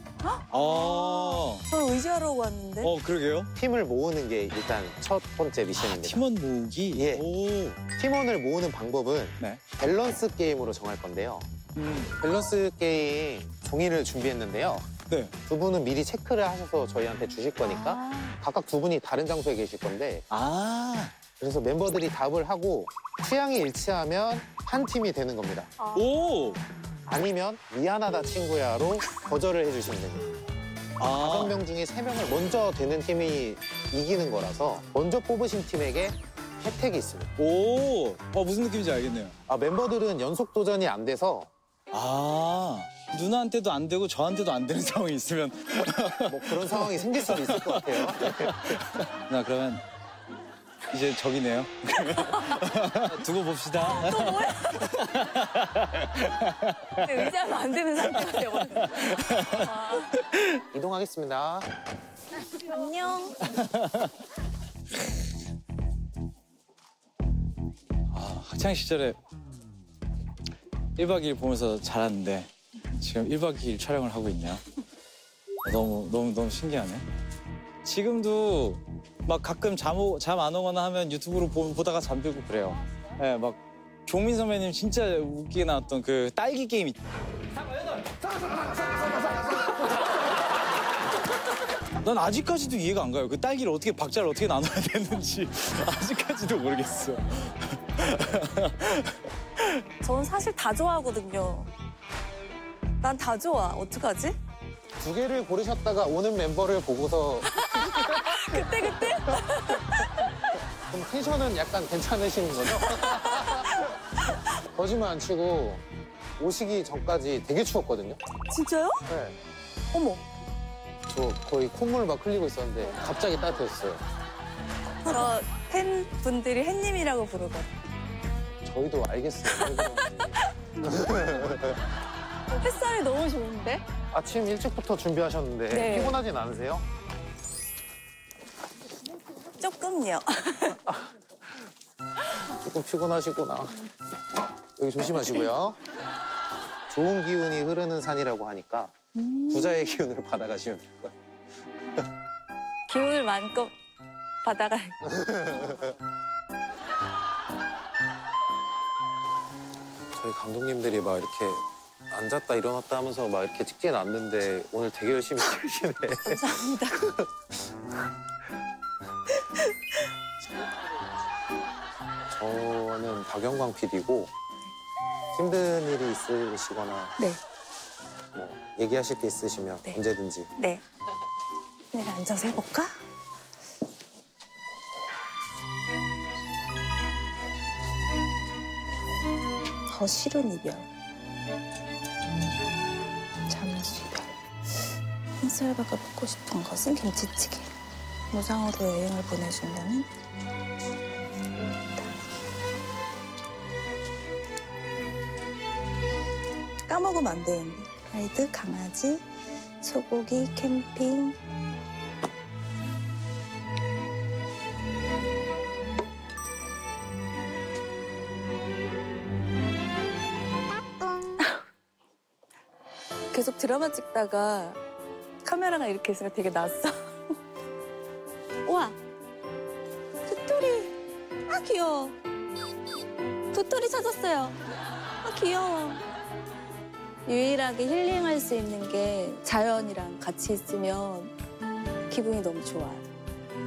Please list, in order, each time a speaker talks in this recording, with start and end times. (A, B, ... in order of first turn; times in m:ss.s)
0:00.2-0:02.9 A
0:00.5-0:01.6 B
0:02.8-0:03.5 B
0:03.5-0:06.2 C
0:05.8-0:07.8 B
0:06.9-0:07.2 C
0:07.9-0:11.5 C
0:11.8-0:12.1 B
0:12.2-0:14.9 C
0:15.4-0:20.2 C
0:17.6-0:18.3 A
0:20.3-0:21.1 B
0:21.4-0:25.7 C
0:25.8-0:26.0 A
0:25.9-0:26.6 B
0:27.0-0:30.4 C
0:31.0-0:31.6 B
0:31.1-0:37.3 C
0:37.4-0:39.3 B
0:39.5-0:41.5 C
0:41.9-0:49.8 B
0:46.2-0:48.7 C
0:50.9-0:56.9 B
0:53.9-0:55.0 A
0:57.0-1:00.2 A
0:59.0-0:59.6 B
1:00.3-1:00.6 B
1:00.7-1:01.7 C
1:02.5-1:03.4 A
1:03.6-1:04.1 B
1:08.1-1:09.2 B
1:11.0-1:14.6 B
1:15.6-1:17.0 B
1:17.8-1:27.0 B
1:32.0-1:39.8 B
1:40.0-1:41.7 A
1:43.0-1:44.4 A
1:45.0-1:49.1 C
1:47.5-1:50.2 A
1:50.9-1:53.9 C
1:52.9-1:53.9 A
1:54.5-1:55.8 C
1:56.4-1:58.2 C
1:58.5-1:59.0 A
1:59.1-1:59.4 C
1:59.9-2:00.2 A
2:01.1-2:04.0 C
2:05.0-2:07.7 A
2:08.6-2:11.8 C
2:09.5-2:09.9 A
2:12.5-2:13.8 A
2:14.1-2:16.8 C
2:15.7-2:16.2 A
2:19.6-2:20.8 A
2:22.6-2:23.8 C
2:24.8-2:25.8 C
2:26.9-2:28.9 C
2:29.2-2:29.8 A
2:29.5-2:31.1 C
2:32.9-2:33.7 A
2:34.4-2:35.0 A
2:35.0-2:35.9 C
2:40.2-2:47.2 C
2:46.2-2:47.1 A
2:52.3-2:54.3 C
2:55.3-2:57.2 C
2:58.3-3:00.5 C
3:00.6-3:00.8 A
3:01.9-3:02.9 A
3:09.9-3:10.9 A
3:13.5-3:14.3 A
3:15.4-3:17.7 A
3:18.3-3:20.1 A
3:26.9-3:29.2 A
3:29.8-3:31.4 A
3:43.3-3:44.8 A
3:45.4-3:47.3 A
3:48.6-3:49.0 A
3:50.2-3:50.9 A
3:51.5-3:52.2 A
3:53.5-3:54.6 A
3:55.2-3:56.0 A
3:57.2-4:01.4 A
4:02.1-4:03.0 A